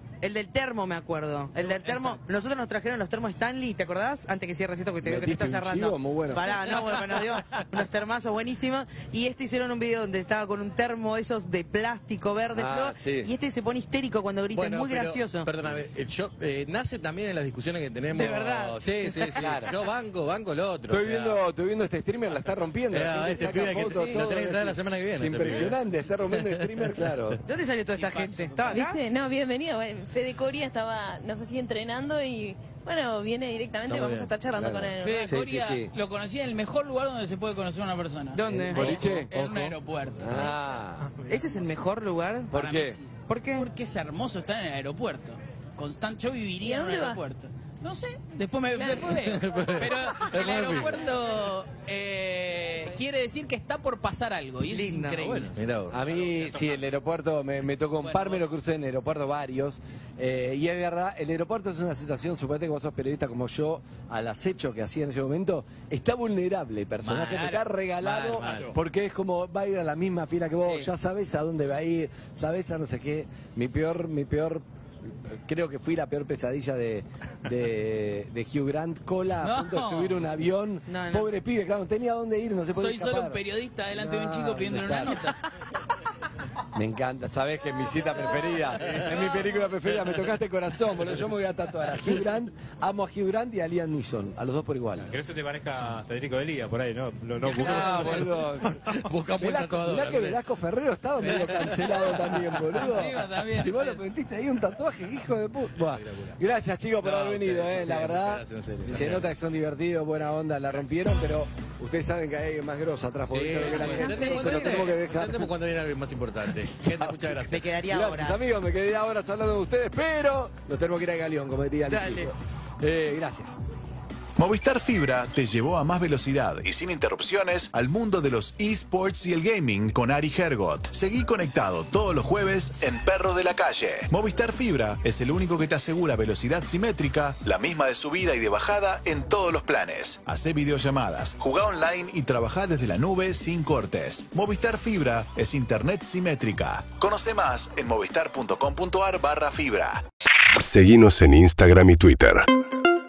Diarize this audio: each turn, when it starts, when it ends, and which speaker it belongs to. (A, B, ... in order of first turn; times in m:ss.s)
0:00.2-0:15.5 A
0:01.6-0:02.2 B
0:05.0-0:06.6 C
0:12.5-0:13.3 C
0:14.5-0:21.4 D
0:18.1-0:19.6 A
0:19.4-0:19.7 C
0:20.9-0:27.4 C
0:22.9-0:25.8 D
0:26.3-0:26.6 D
0:27.4-0:29.0 A
0:27.9-0:28.8 B
0:28.7-0:35.4 E
0:33.9-0:34.3 D
0:34.5-0:35.9 C
0:35.0-0:40.4 B
0:38.3-0:39.0 A
0:38.4-0:39.4 C
0:40.2-0:41.1 C
0:41.0-0:41.4 F
0:41.2-0:42.5 A
0:42.5-0:43.0 C
0:42.5-0:55.5 B
0:43.3-0:43.6 A
0:46.6-0:47.2 E
0:48.8-0:49.1 E
0:49.2-0:50.9 D
0:54.7-0:55.5 A
0:55.5-0:56.0 D
0:55.9-1:23.4 C
0:58.0-0:58.5 B
1:07.1-1:07.5 B
1:08.1-1:08.7 B
1:08.2-1:08.7 F
1:19.4-1:20.2 B
1:20.9-1:21.3 A
1:22.7-1:25.4 B
1:23.9-1:25.2 C
1:26.7-1:35.1 C
1:28.9-1:29.2 D
1:35.0-1:39.0 F
1:37.4-1:38.8 C
1:37.6-1:38.3 D
1:38.9-1:40.4 D
1:39.4-1:55.5 C
1:41.2-1:42.2 D
1:41.7-1:44.0 B
1:45.9-1:46.3 D
1:47.0-1:49.3 D
1:53.3-1:57.7 D
1:53.6-1:54.8 E
1:57.5-1:58.4 A
1:57.9-2:03.5 C
2:01.9-2:02.3 A
2:04.4-2:30.0 G
2:30.5-2:32.4 H